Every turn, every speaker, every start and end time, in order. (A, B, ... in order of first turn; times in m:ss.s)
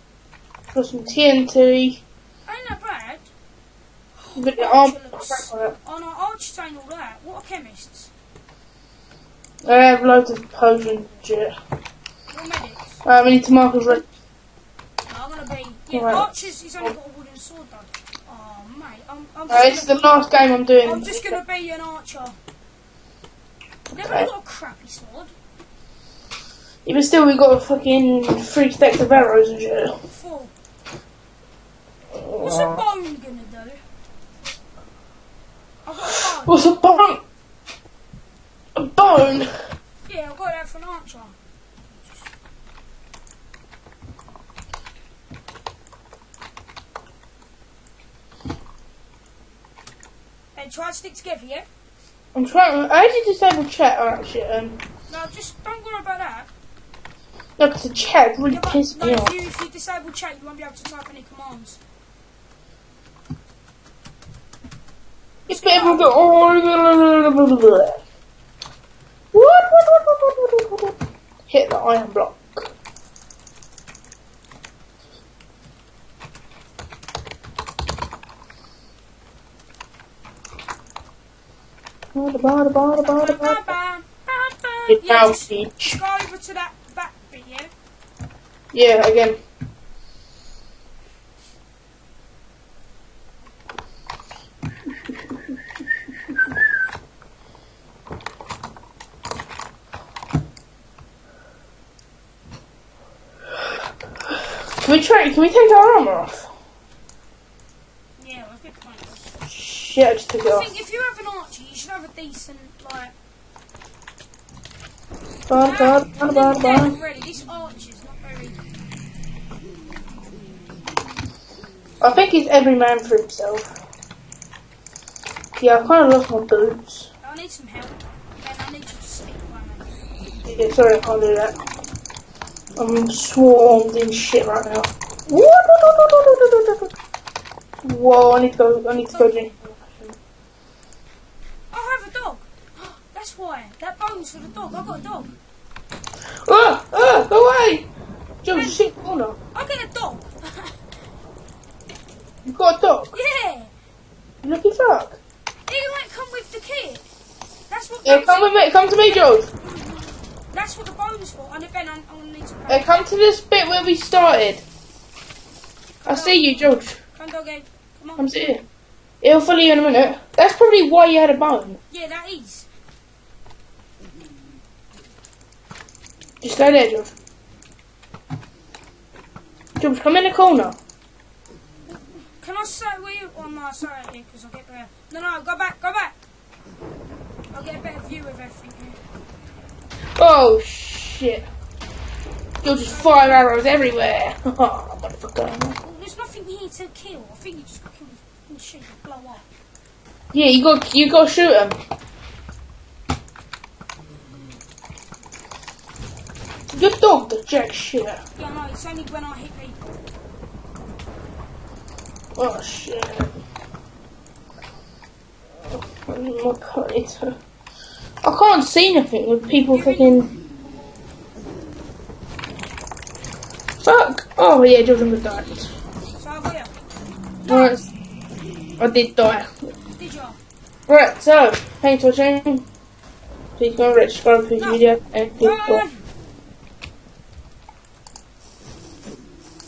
0:00.7-0:02.0 A
0:02.5-0:03.3 B
0:04.2-0:08.1 B
0:04.4-0:05.8 A
0:09.6-0:11.5 A
0:12.3-0:13.0 B
0:13.0-0:14.0 A
0:15.1-0:20.0 B
0:15.9-0:16.9 A
0:19.5-0:21.4 A
0:20.8-0:22.4 B
0:23.9-0:25.3 B
0:24.0-0:24.3 A
0:26.9-0:30.0 A
0:30.1-0:30.5 B
0:32.3-0:32.8 A
0:32.4-0:33.8 B
0:35.8-0:37.2 B
0:36.3-0:37.2 A
0:38.8-0:39.5 A
0:40.1-0:41.4 B
0:50.6-0:51.7 B
0:52.3-0:54.8 A
0:55.1-0:56.5 B
0:57.6-0:59.4 A
0:58.5-1:01.8 B
1:05.5-1:06.2 B
1:05.5-1:08.0 A
1:09.3-1:12.7 A
1:22.2-1:23.7 A
1:23.0-1:27.7 B
1:24.9-1:26.0 A
1:28.7-1:29.4 A
1:44.8-1:46.5 A
1:48.2-1:49.3 B
1:49.5-1:50.7 A
1:50.4-1:53.1 B
1:55.5-1:57.0 A
1:55.6-1:58.6 B
2:02.0-2:03.7 A
2:05.6-2:07.1 A
2:07.2-2:10.0 B
2:10.4-2:11.6 A
2:12.8-2:16.9 A
2:17.8-2:20.2 A
2:18.9-2:19.6 B
2:21.7-2:25.4 B
2:26.4-2:27.9 A
2:28.4-2:29.4 A
2:28.5-2:28.9 B
2:29.5-2:30.8 B
2:32.5-2:33.1 A
2:33.1-2:33.7 B
2:34.4-2:35.2 A
2:35.7-2:37.0 B
2:37.7-2:43.0 B
2:38.0-2:39.5 A
2:42.7-2:44.6 A
2:46.0-2:48.4 B
2:46.1-2:47.0 A
2:48.2-2:48.6 A
2:49.2-2:51.8 A
2:51.9-2:52.7 B
2:56.4-2:57.1 A
2:59.8-3:00.8 A
3:01.9-3:06.2 B
3:07.5-3:09.0 B
3:10.2-3:11.5 A
3:12.6-3:15.8 A
3:12.8-3:13.4 B
3:15.8-3:19.5 B
3:20.3-3:21.8 A
3:26.7-3:28.2 A
3:28.4-3:30.0 B
3:32.4-3:33.3 A
3:35.6-3:37.3 A
3:38.2-3:40.3 A
3:39.7-3:40.3 B
3:43.8-3:45.7 A
3:46.2-3:46.8 B
3:47.4-3:47.8 B
3:47.5-3:47.9 A
3:48.8-3:49.5 A
3:50.0-3:50.4 B
3:50.9-3:52.6 A
3:53.6-3:55.8 A
3:54.6-3:54.8 B
3:55.4-3:56.1 B